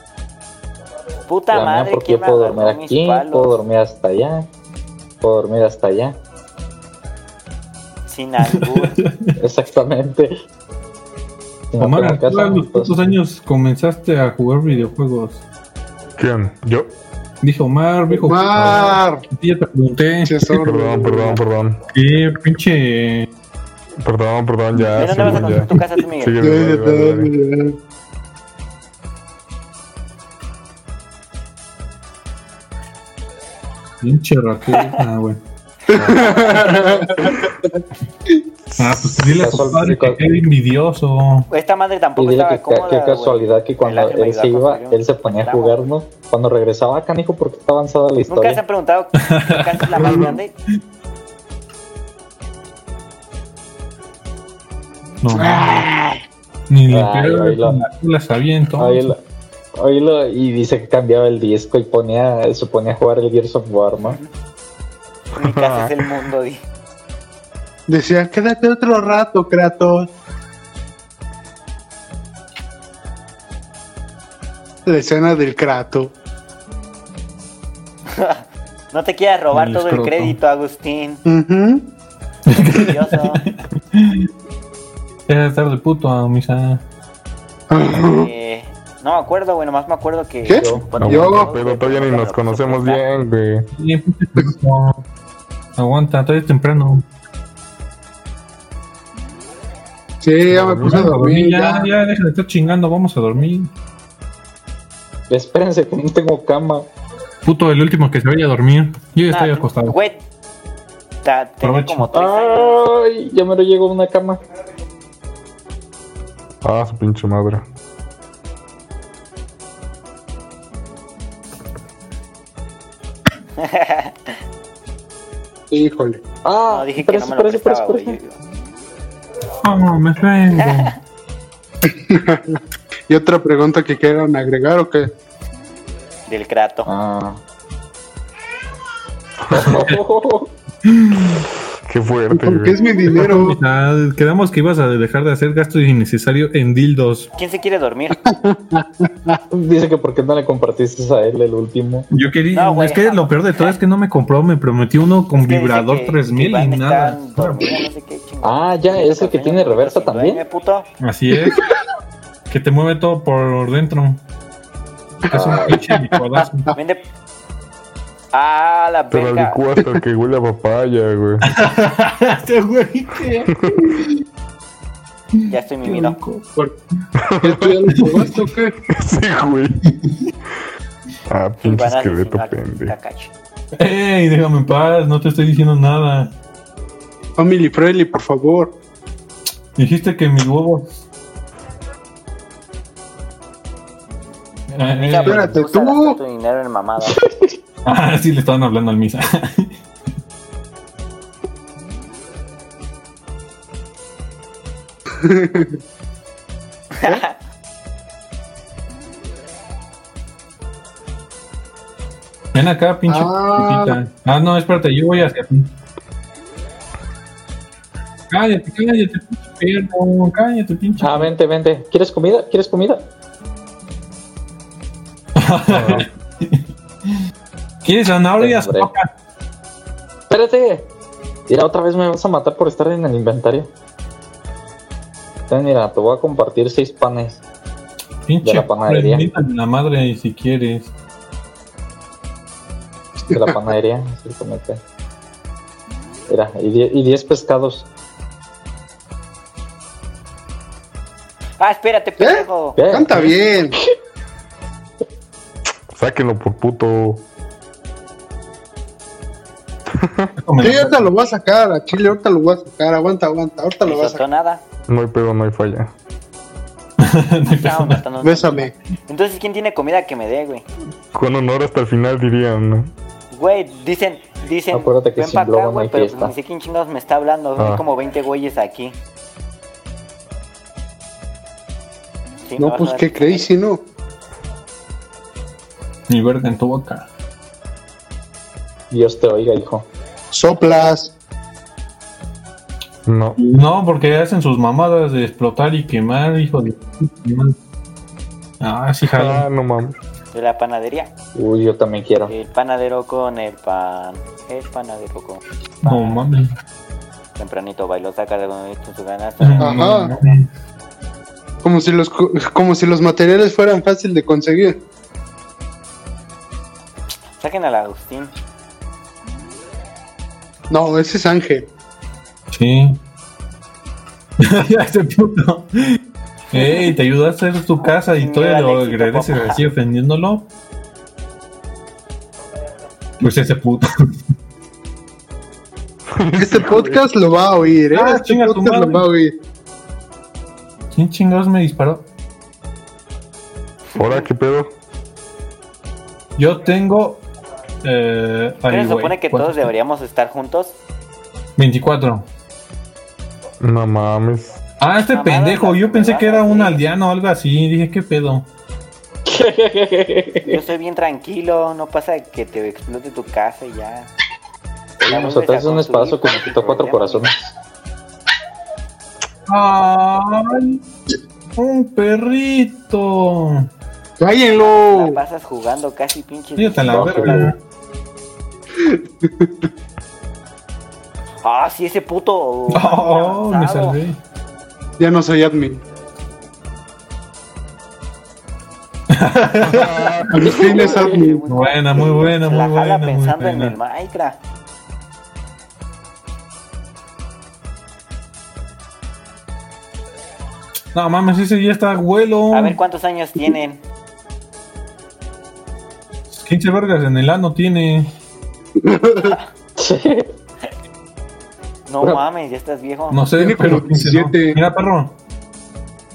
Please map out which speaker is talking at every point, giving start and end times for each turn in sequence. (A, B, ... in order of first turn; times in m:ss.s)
0:01.3-0:03.6 A
0:01.5-0:04.5 B
0:05.2-0:06.2 B
0:08.0-0:09.0 A
0:08.4-0:09.4 C
0:09.4-0:10.3 B
0:11.7-0:13.0 B
0:11.8-0:15.4 C
0:16.2-0:16.9 D
0:17.4-0:20.4 C
0:18.2-0:19.2 E
0:20.2-0:21.4 E
0:20.5-0:21.8 D
0:21.9-0:23.3 C
0:24.0-0:27.3 D
0:24.8-0:25.9 C
0:25.0-0:26.4 A
0:26.4-0:27.7 E
0:34.0-0:35.4 C
0:35.9-0:37.2 A
0:35.9-0:37.8 E
0:36.0-0:36.3 D
0:38.8-0:41.5 C
0:39.3-0:40.2 B
0:41.5-0:45.8 A
0:42.2-0:48.6 B
0:48.3-0:50.5 A
0:49.2-0:50.3 C
0:50.0-0:50.4 D
0:55.2-0:55.8 C
0:55.3-0:56.1 E
0:56.7-0:59.1 C
0:56.9-0:57.8 B
0:58.8-0:59.2 B
0:59.7-1:04.2 B
1:04.0-1:04.2 A
1:05.4-1:05.9 D
1:05.4-1:06.6 A
1:07.9-1:10.1 E
1:14.8-1:16.1 E
1:18.1-1:21.2 A
1:19.5-1:20.4 C
1:21.2-1:21.8 E
1:22.5-1:24.3 C
1:22.6-1:23.4 A
1:25.3-1:26.8 C
1:27.7-1:28.3 E
1:27.9-1:33.0 A
1:30.4-1:31.5 E
1:30.5-1:30.9 B
1:31.0-1:33.7 D
1:33.7-1:35.0 C
1:35.8-1:37.0 C
1:40.2-1:41.9 E
1:40.5-1:41.1 D
1:40.8-1:43.7 C
1:45.3-1:46.9 B
1:47.4-1:50.0 C
1:49.3-1:50.2 A
1:51.2-1:52.8 A
1:51.6-1:52.1 C
1:52.1-1:54.4 B
1:56.6-1:57.6 D
2:03.6-2:04.3 A
2:05.7-2:06.2 E
2:06.4-2:08.2 B
2:06.7-2:08.4 A
2:09.6-2:10.9 C
2:10.6-2:10.9 A
2:11.9-2:15.1 E
2:16.3-2:16.9 A
2:16.8-2:17.4 B
2:19.5-2:20.5 B
2:19.5-2:20.0 C
2:20.8-2:21.4 C
2:21.9-2:22.8 D
2:22.3-2:23.6 E
2:23.1-2:27.3 C
2:27.3-2:28.2 A
2:28.2-2:29.4 E
2:29.5-2:32.1 B
2:32.1-2:37.8 C
2:32.5-2:33.7 A
2:35.3-2:40.8 A
2:38.4-2:40.4 B
2:41.0-2:41.6 C
2:42.5-2:44.2 C
2:45.3-2:45.8 B
2:45.3-2:46.7 C
2:45.5-2:46.2 E
2:46.7-2:47.0 A
2:48.3-2:49.6 A
2:49.1-2:51.4 D
2:51.4-2:54.1 C
2:53.6-2:53.9 D
2:55.4-2:56.5 C
2:55.5-2:56.2 A
2:57.2-2:57.8 D
2:57.4-2:58.7 E
2:57.9-2:58.4 C
2:58.9-2:59.8 D
2:59.8-3:00.2 C
3:01.3-3:02.9 D
3:01.6-3:03.3 A
3:03.8-3:06.3 C
3:07.4-3:08.7 E
3:09.8-3:11.0 C
3:14.7-3:15.5 C
3:14.9-3:17.2 A
3:15.2-3:16.2 E
3:17.1-3:17.5 B
3:17.8-3:19.7 C
3:25.2-3:25.8 E
3:27.0-3:27.3 A
3:32.5-3:35.7 C
3:33.1-3:34.0 E
3:38.3-3:41.3 C
3:41.0-3:43.0 B
3:45.4-3:47.2 C
3:45.7-3:46.0 B
3:47.8-3:49.1 C
3:48.4-3:48.9 B
3:50.3-3:50.9 B
3:51.5-3:53.7 B
3:55.5-3:57.4 B
3:58.2-4:00.9 C
3:58.4-3:59.3 B
4:03.3-4:04.8 B
4:06.3-4:07.8 B
4:11.6-4:12.8 A
4:12.2-4:13.8 E
4:12.8-4:13.3 B
4:15.9-4:17.2 D
4:19.9-4:20.3 D
4:20.4-4:21.1 C
4:20.6-4:24.2 E
4:23.8-4:24.6 A
4:24.9-4:25.9 D
4:27.0-4:28.0 C
4:27.5-4:30.6 A
4:28.2-4:28.7 E
4:31.1-4:32.9 D
4:33.3-4:39.0 A
4:34.7-4:36.3 B
4:37.6-4:37.8 D
4:42.4-4:43.5 A
4:42.6-4:43.8 E
4:46.1-4:47.1 C
4:48.9-4:49.8 B
4:50.3-4:51.1 E
4:53.0-4:53.4 D
4:53.4-4:57.5 C
4:58.6-4:59.5 C
4:59.0-5:00.0 D
5:00.3-5:01.1 A
5:01.3-5:02.3 B
5:02.3-5:06.2 A
5:05.8-5:06.5 C
5:07.4-5:09.8 A
5:09.4-5:10.5 C
5:09.6-5:10.1 E
5:11.6-5:14.8 E
5:17.4-5:18.3 A
5:20.7-5:21.6 E
5:22.5-5:23.0 C
5:24.4-5:26.0 C
5:26.5-5:30.4 C
5:28.2-5:29.6 A
5:33.2-5:33.9 C
5:36.1-5:37.1 D
5:36.4-5:39.3 E
5:37.9-5:39.0 C
5:40.9-5:42.0 C
5:43.9-5:44.3 A
5:44.0-5:44.7 D
5:46.4-5:47.2 C
5:47.8-5:49.7 C
5:48.7-5:50.7 A
5:51.6-5:52.2 C
5:53.6-5:54.6 D
5:54.8-5:58.5 C
5:55.1-5:56.8 A
5:59.2-6:00.6 B
6:00.4-6:04.1 A
6:05.0-6:07.5 B
6:05.0-6:07.3 A
6:09.5-6:10.8 C
6:11.6-6:13.7 C
6:14.2-6:15.2 E
6:14.4-6:17.5 A
6:16.6-6:17.6 C
6:16.8-6:17.5 B
6:18.8-6:19.5 E
6:21.4-6:24.0 A
6:22.7-6:24.2 C
6:25.0-6:25.8 E
6:29.1-6:30.3 C
6:29.6-6:30.5 D
6:30.3-6:31.4 E
6:30.4-6:31.2 B
6:30.5-6:34.4 A
6:31.5-6:33.8 C
6:40.9-6:42.8 C
6:42.5-6:43.8 A
6:46.3-6:48.1 C
6:48.8-6:49.4 E
6:49.8-6:50.3 B
6:51.9-6:53.2 A
6:53.1-6:55.1 C
6:53.4-6:54.6 E